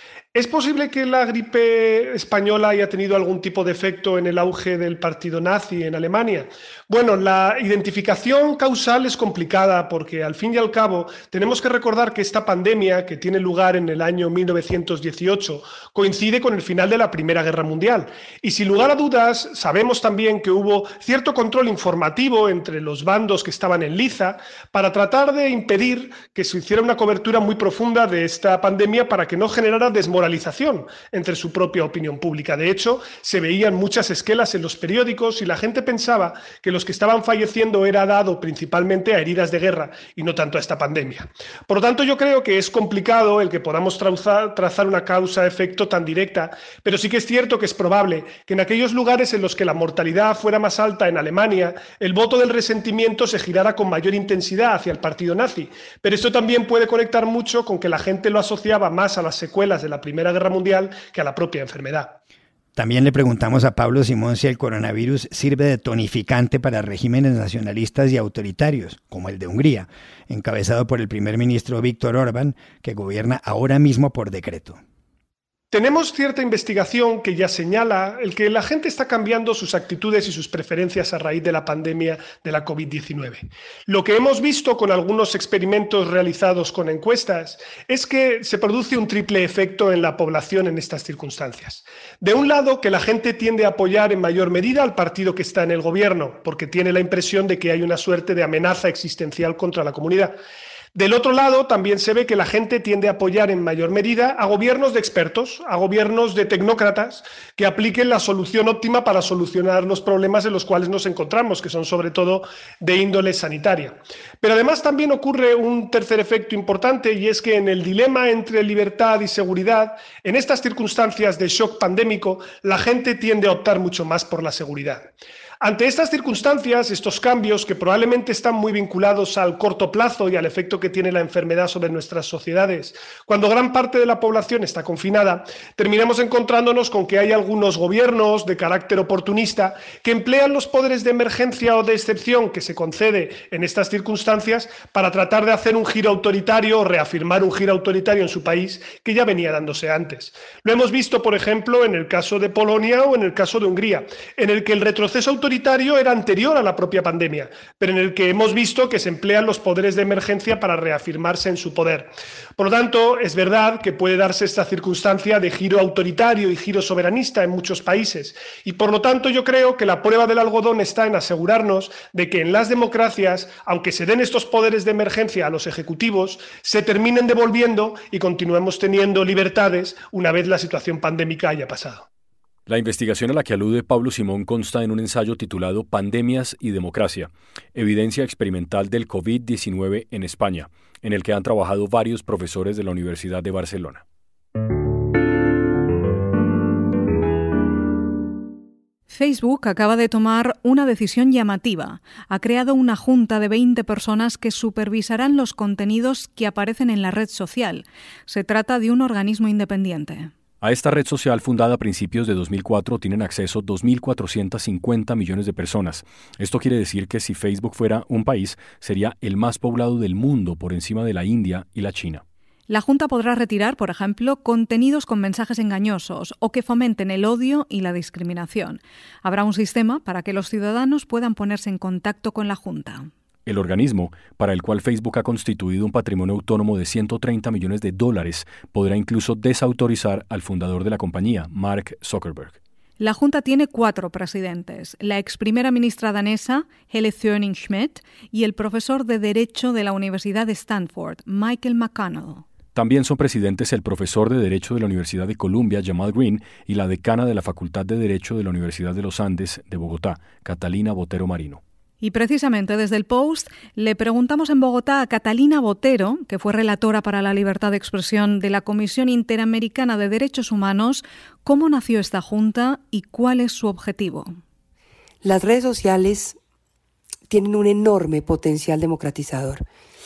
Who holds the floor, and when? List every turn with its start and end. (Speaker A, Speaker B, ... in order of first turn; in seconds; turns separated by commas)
Speaker A: 0.3-62.1, Speaker B: 62.8-74.8, Speaker A: 75.7-100.3, Speaker A: 101.0-125.1, Speaker A: 125.6-182.1, Speaker C: 182.7-194.0, Speaker D: 199.1-210.3, Speaker C: 210.6-222.2, Speaker D: 222.7-233.1, Speaker C: 233.5-242.6, Speaker D: 243.0-252.4, Speaker C: 252.8-261.6, Speaker D: 262.0-274.3, Speaker E: 275.2-276.4, Speaker E: 277.3-279.6